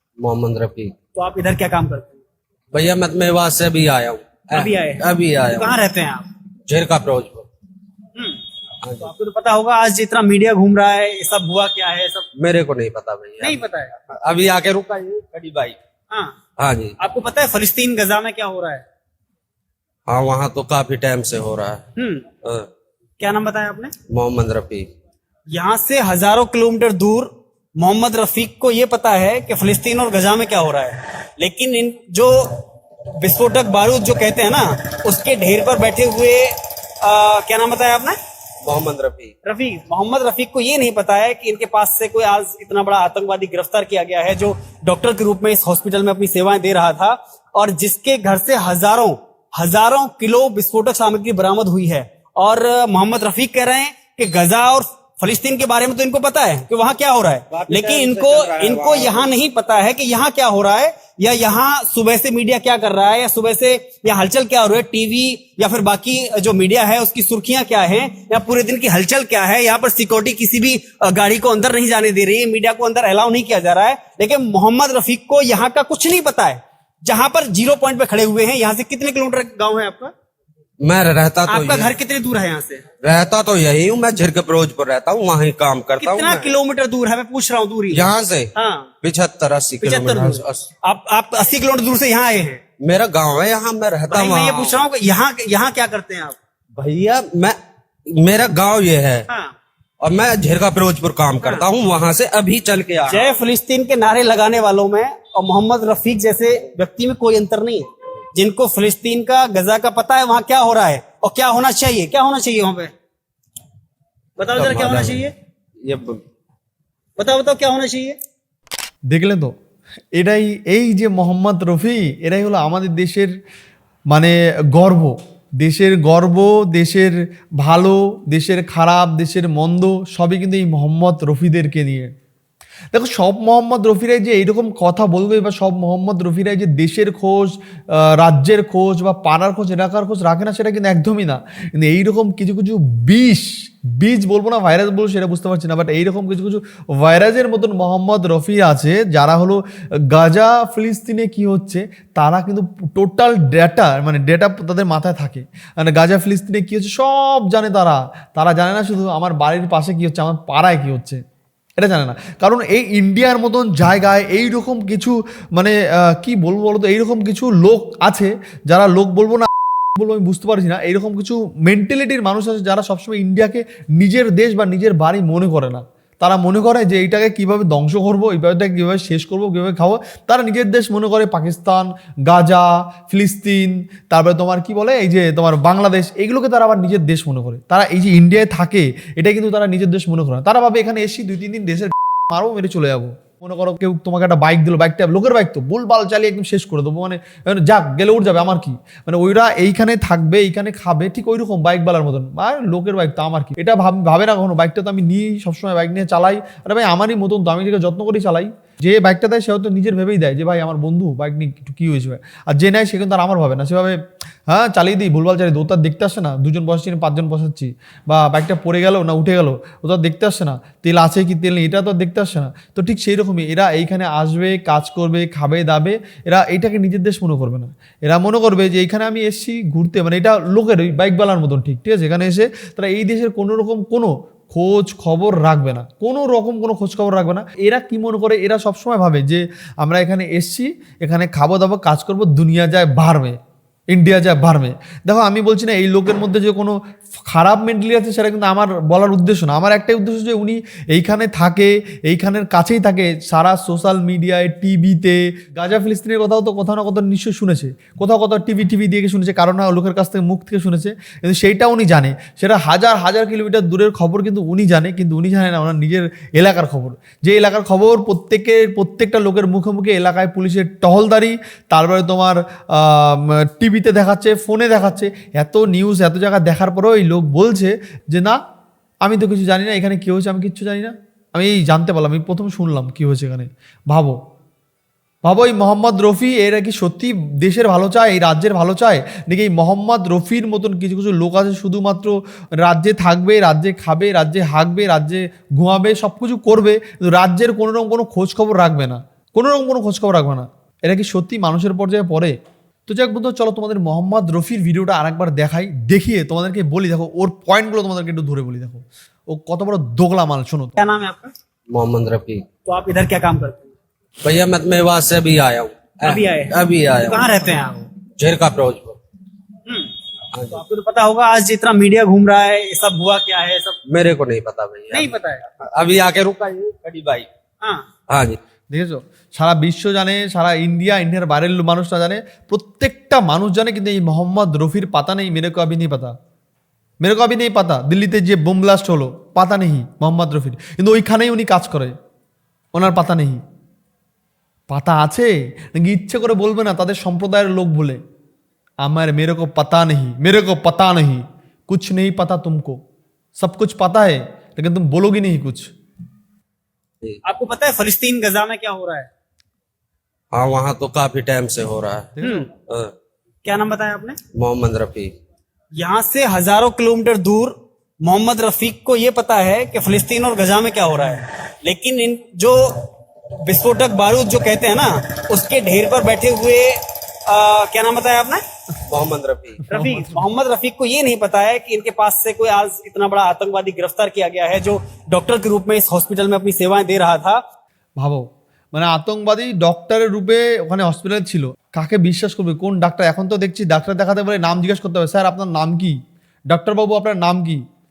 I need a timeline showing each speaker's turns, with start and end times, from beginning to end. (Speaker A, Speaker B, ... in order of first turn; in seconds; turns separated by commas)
Speaker A: 0.2-0.9, Speaker B: 1.1-2.2, Speaker A: 2.7-5.8, Speaker B: 4.5-6.3, Speaker A: 6.7-7.5, Speaker B: 9.0-12.3, Speaker A: 12.4-13.6, Speaker B: 13.4-14.0, Speaker A: 14.1-15.8, Speaker B: 16.1-16.4, Speaker A: 16.6-17.0, Speaker B: 17.0-18.8, Speaker A: 20.1-21.8, Speaker B: 22.0-22.3, Speaker B: 23.2-23.9, Speaker A: 24.1-24.9, Speaker B: 25.5-32.6, Speaker B: 33.2-38.1, Speaker A: 38.6-39.3, Speaker B: 39.5-80.1, Speaker A: 57.5-59.3, Speaker A: 80.8-81.9, Speaker B: 81.5-82.8, Speaker A: 83.0-86.5, Speaker B: 86.0-88.9, Speaker A: 87.9-90.7, Speaker B: 89.8-92.6, Speaker A: 92.8-94.8, Speaker B: 94.1-96.4, Speaker A: 96.8-97.6, Speaker A: 98.2-99.3, Speaker B: 99.3-99.5, Speaker A: 100.0-103.3, Speaker B: 103.1-112.9, Speaker B: 114.4-115.3, Speaker A: 114.6-115.3, Speaker A: 115.8-116.2, Speaker B: 117.2-118.2, Speaker C: 119.1-119.5, Speaker C: 120.2-123.3, Speaker C: 124.1-132.1, Speaker C: 132.9-149.6, Speaker C: 150.1-161.2, Speaker C: 161.8-243.4, Speaker C: 243.9-278.4, Speaker C: 279.0-284.2, Speaker C: 285.2-302.3, Speaker C: 302.9-310.8, Speaker B: 310.8-311.3, Speaker A: 311.7-312.4, Speaker B: 312.7-313.7, Speaker A: 314.2-317.6, Speaker B: 316.0-317.7, Speaker A: 318.2-319.0, Speaker A: 320.3-320.6, Speaker B: 320.5-323.8, Speaker A: 323.9-327.3, Speaker B: 324.9-325.4, Speaker A: 328.1-328.4, Speaker C: 328.7-336.1, Speaker C: 337.0-341.9, Speaker C: 342.7-343.4, Speaker C: 344.7-348.0, Speaker C: 348.8-352.8, Speaker C: 353.4-355.7, Speaker B: 357.2-359.1, Speaker A: 360.3-362.1, Speaker C: 362.2-362.5, Speaker B: 362.2-362.5, Speaker B: 363.4-364.2, Speaker A: 364.4-365.1, Speaker B: 365.8-372.9, Speaker B: 373.4-378.4, Speaker A: 378.9-379.6, Speaker B: 379.7-387.4, Speaker C: 379.7-380.3, Speaker C: 388.0-396.0, Speaker C: 396.5-397.6